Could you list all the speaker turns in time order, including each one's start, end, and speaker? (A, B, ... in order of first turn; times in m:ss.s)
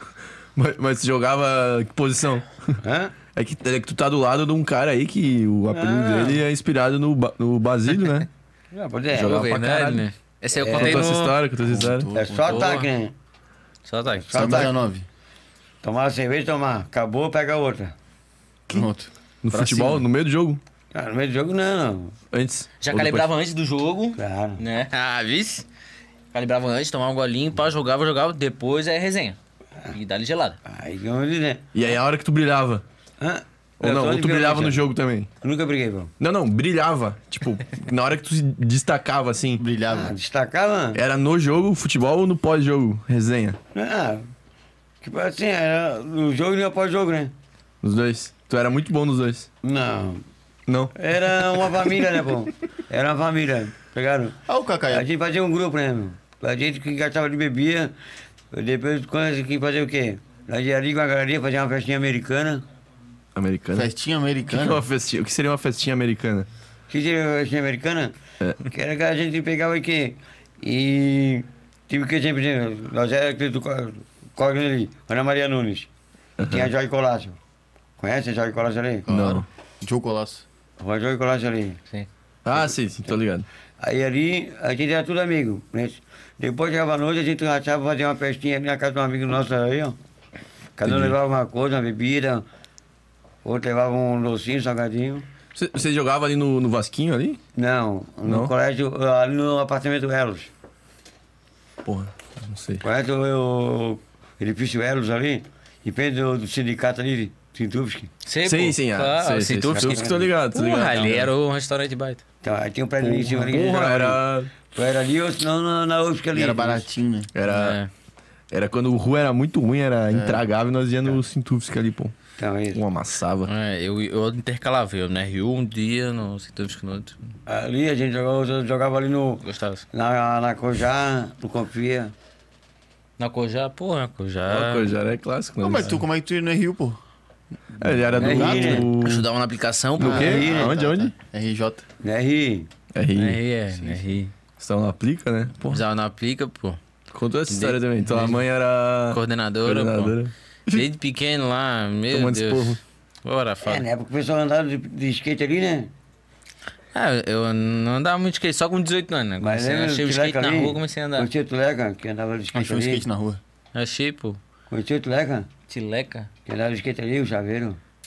0:00.6-0:02.8 A
0:02.8-0:03.1 B
0:03.3-0:08.3 A
0:05.7-0:06.4 B
0:08.7-0:10.0 B
0:09.1-0:09.9 A
0:09.1-0:11.4 C
0:10.6-0:11.1 B
0:10.7-0:12.1 A
0:11.6-0:12.7 D
0:12.1-0:13.1 B
0:12.4-0:12.9 C
0:13.9-0:14.7 C
0:14.2-0:14.7 B
0:14.3-0:15.0 D
0:15.8-0:18.0 B
0:18.7-0:20.0 D
0:19.4-0:20.6 A
0:20.9-0:22.1 B
0:22.3-0:23.3 A
0:22.8-0:25.6 C
0:24.2-0:24.6 B
0:26.3-0:29.4 C
0:29.9-0:30.6 C
0:30.6-0:31.6 B
0:31.7-0:32.8 A
0:33.2-0:34.8 B
0:33.8-0:35.3 A
0:35.4-0:36.1 B
0:36.2-0:39.6 A
0:39.6-0:40.1 D
0:39.9-0:41.0 B
0:40.9-0:43.6 A
0:43.7-0:44.3 B
0:45.0-0:47.3 B
0:47.8-0:49.5 A
0:49.6-0:50.2 B
0:50.7-0:50.9 A
0:50.9-0:54.4 B
0:54.4-0:55.1 D
0:54.9-0:57.9 B
0:58.5-1:02.6 B
1:03.3-1:03.9 A
1:03.7-1:04.8 D
1:04.5-1:06.5 A
1:06.9-1:15.9 B
1:16.4-1:16.7 A
1:16.4-1:17.4 B
1:18.0-1:19.1 B
1:19.1-1:20.4 D
1:19.1-1:19.4 A
1:20.8-1:21.8 B
1:22.4-1:23.4 A
1:23.8-1:30.0 B
1:30.8-1:32.4 B
1:30.8-1:31.2 A
1:33.4-1:35.3 B
1:35.5-1:37.4 A
1:37.6-1:40.5 B
1:38.2-1:38.5 A
1:41.8-1:42.8 A
1:42.8-1:48.1 B
1:48.2-1:52.2 C
1:48.4-1:51.3 A
1:49.7-1:50.3 B
1:52.4-1:56.8 B
1:53.0-1:54.5 A
1:56.3-1:57.3 D
1:57.3-1:57.8 A
1:57.4-1:57.9 C
1:58.5-2:02.1 A
2:00.1-2:00.4 D
2:02.4-2:02.8 B
2:02.7-2:03.5 A
2:03.4-2:07.2 C
2:07.4-2:12.1 B
2:09.4-2:09.8 C
2:13.2-2:15.0 C
2:14.5-2:16.0 A
2:15.6-2:17.0 D
2:17.8-2:18.8 D
2:17.8-2:19.3 A
2:18.2-2:18.9 B
2:18.4-2:20.5 C
2:20.0-2:21.1 A
2:20.0-2:21.8 D
2:20.0-2:20.7 B
2:22.0-2:22.7 B
2:22.9-2:23.4 A
2:23.1-2:24.3 C
2:24.6-2:25.8 A
2:25.7-2:26.8 C
2:27.1-2:30.8 A
2:27.5-2:28.4 C
2:29.1-2:30.2 C
2:30.7-2:33.8 C
2:32.1-2:32.8 A
2:33.6-2:35.9 B
2:36.9-2:41.3 C
2:39.4-2:43.0 B
2:42.5-2:43.4 D
2:43.7-2:44.4 C
2:44.7-2:45.5 B
2:45.7-2:46.3 C
2:46.4-2:47.8 B